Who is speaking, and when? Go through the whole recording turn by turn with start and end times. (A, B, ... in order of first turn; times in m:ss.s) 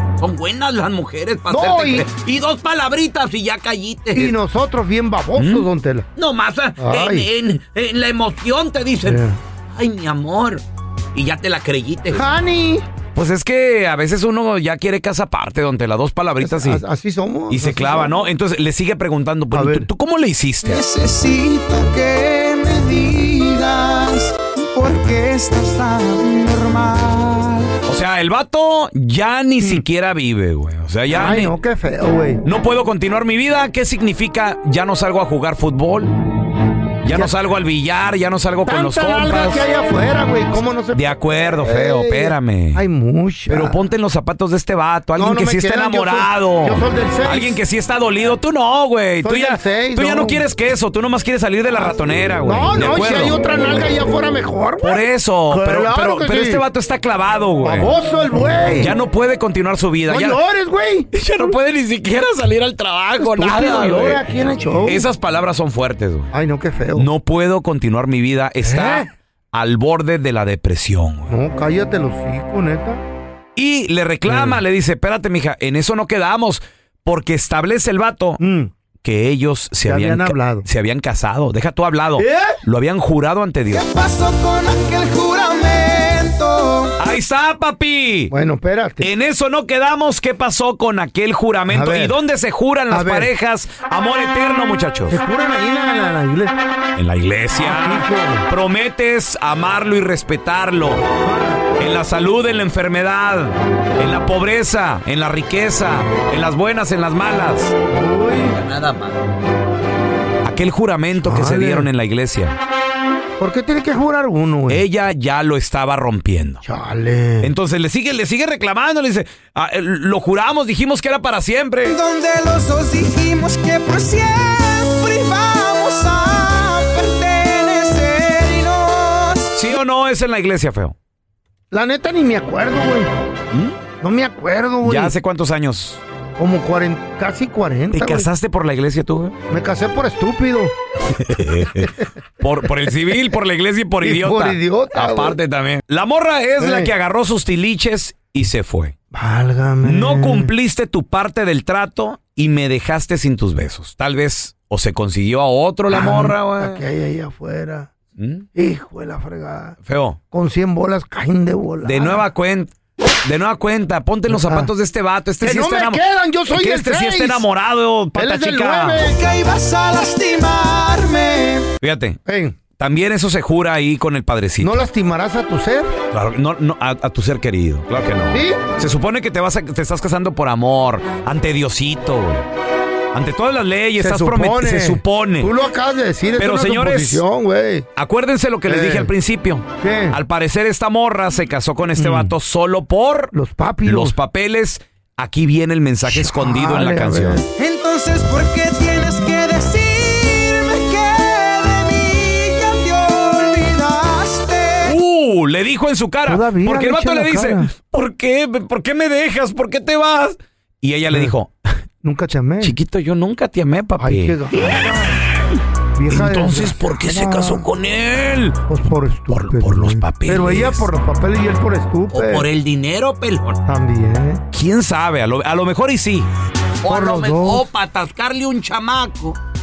0:00.2-0:04.3 A
0:01.5-0:02.0 B
0:04.1-0:06.1 B
0:05.4-0:05.6 C
0:06.2-0:10.6 A
0:06.8-0:07.3 B
0:09.0-0:09.4 B
0:11.1-0:12.2 A
0:12.1-0:12.8 B
0:13.1-0:16.8 C
0:16.4-0:18.3 B
0:17.5-0:20.8 C
0:19.5-0:19.9 B
0:20.7-0:27.5 D
0:27.8-0:31.5 C
0:31.1-0:32.4 B
0:32.4-0:36.1 C
0:37.0-0:39.6 C
0:37.1-0:37.4 B
0:38.6-0:43.8 B
0:40.9-0:42.8 C
0:43.5-0:53.3 C
0:45.2-0:47.6 B
0:49.2-0:50.4 B
0:51.8-0:56.6 B
0:54.8-0:57.9 C
0:57.6-0:58.9 B
0:58.8-1:00.4 C
1:00.1-1:01.1 B
1:01.1-1:04.2 C
1:03.2-1:05.0 B
1:04.8-1:06.3 C
1:06.3-1:07.1 B
1:06.9-1:11.3 C
1:08.6-1:09.1 B
1:11.3-1:13.0 B
1:13.6-1:18.4 C
1:14.2-1:14.6 B
1:18.4-1:18.7 B
1:19.0-1:23.8 C
1:19.8-1:20.6 B
1:22.2-1:22.6 B
1:23.8-1:26.9 D
1:27.0-1:28.3 C
1:28.3-1:29.1 B
1:29.0-1:35.2 C
1:31.7-1:32.2 B
1:32.9-1:33.3 B
1:35.1-1:36.5 B
1:37.0-1:41.0 C
1:37.6-1:38.5 B
1:41.8-1:47.7 C
1:47.9-1:48.6 B
1:48.5-1:49.2 A
1:50.4-1:52.6 C
1:51.2-1:51.9 B
1:53.4-1:54.8 B
1:54.7-1:56.6 C
1:56.6-1:57.5 B
1:57.4-2:02.0 C
2:02.0-2:09.3 D
2:09.5-2:10.9 C
2:11.7-2:13.1 B
2:13.5-2:13.8 C
2:14.0-2:15.1 B
2:14.8-2:16.0 C
2:16.4-2:18.3 B
2:17.9-2:19.3 C
2:19.5-2:20.7 B
2:21.2-2:28.9 C
2:24.0-2:25.4 B
2:26.6-2:26.9 B
2:29.1-2:30.5 B
2:29.8-2:36.8 C
2:35.9-2:37.9 B
2:38.2-2:38.4 C
2:38.5-2:39.8 B
2:39.8-2:40.2 C
2:40.3-2:42.2 B
2:41.8-2:42.7 C
2:43.2-2:49.1 C
2:44.3-2:44.7 B
2:45.4-2:47.4 B
2:48.1-2:49.2 B
2:49.2-2:51.5 D
2:51.8-2:52.2 C
2:52.2-2:52.6 B
2:52.8-2:54.8 C
2:54.6-2:55.9 B
2:56.1-3:02.4 C
2:58.3-2:58.6 B
3:03.1-3:05.5 C
3:04.0-3:07.9 B
3:06.4-3:07.2 C
3:08.0-3:13.3 C
3:08.7-3:09.1 B
3:09.8-3:10.2 B
3:12.0-3:12.3 B
3:13.3-3:14.2 B
3:13.8-3:17.4 C
3:16.0-3:17.4 B
3:17.6-3:24.8 D
3:24.8-3:31.5 C
3:26.2-3:27.7 B
3:32.0-3:32.7 B
3:32.6-3:34.8 C
3:34.0-3:35.2 B
3:35.9-3:37.6 B
3:36.1-3:38.6 C
3:38.7-3:42.5 B
3:39.3-3:40.9 C
3:42.1-3:43.6 A
3:43.6-3:44.4 B
3:44.5-3:46.3 C
3:46.8-3:49.4 A
3:46.8-3:47.7 B